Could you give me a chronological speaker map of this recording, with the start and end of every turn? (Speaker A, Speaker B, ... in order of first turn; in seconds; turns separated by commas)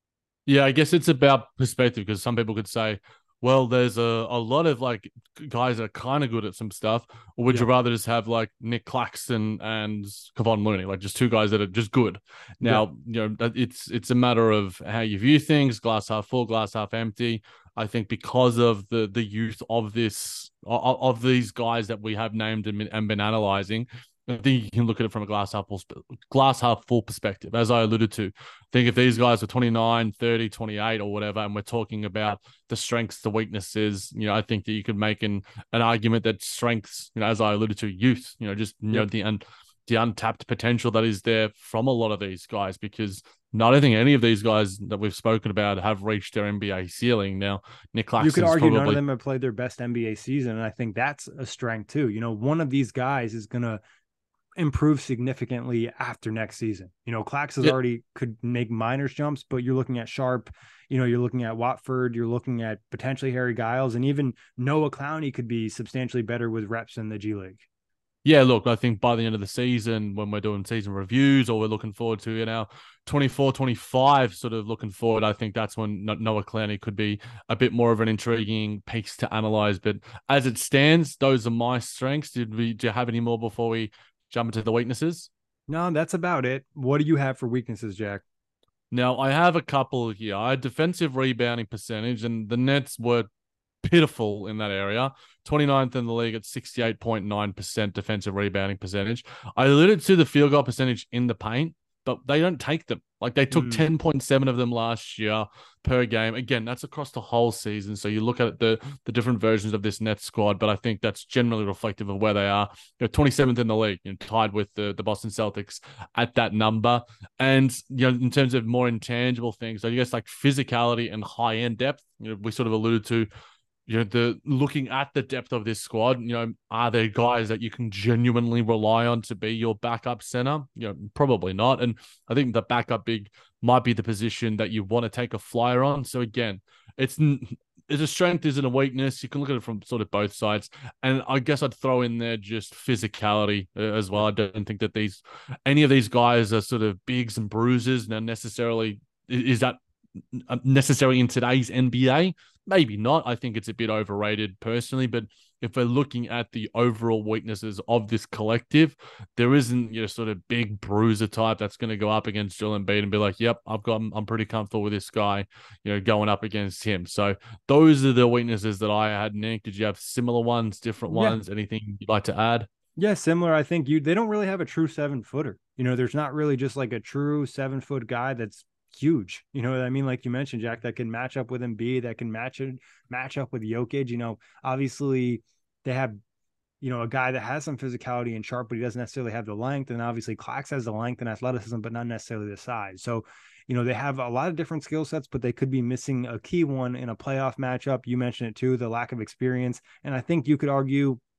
Speaker A: 0.5-49.0, Speaker B: 48.2-53.8, Speaker B: 54.6-67.6, Speaker A: 68.2-85.3, Speaker B: 85.7-88.2, Speaker A: 88.9-93.3, Speaker A: 93.8-123.3, Speaker B: 103.5-103.8, Speaker A: 123.9-149.8, Speaker A: 150.3-172.7, Speaker B: 171.1-171.4, Speaker B: 173.0-186.2, Speaker B: 186.8-201.2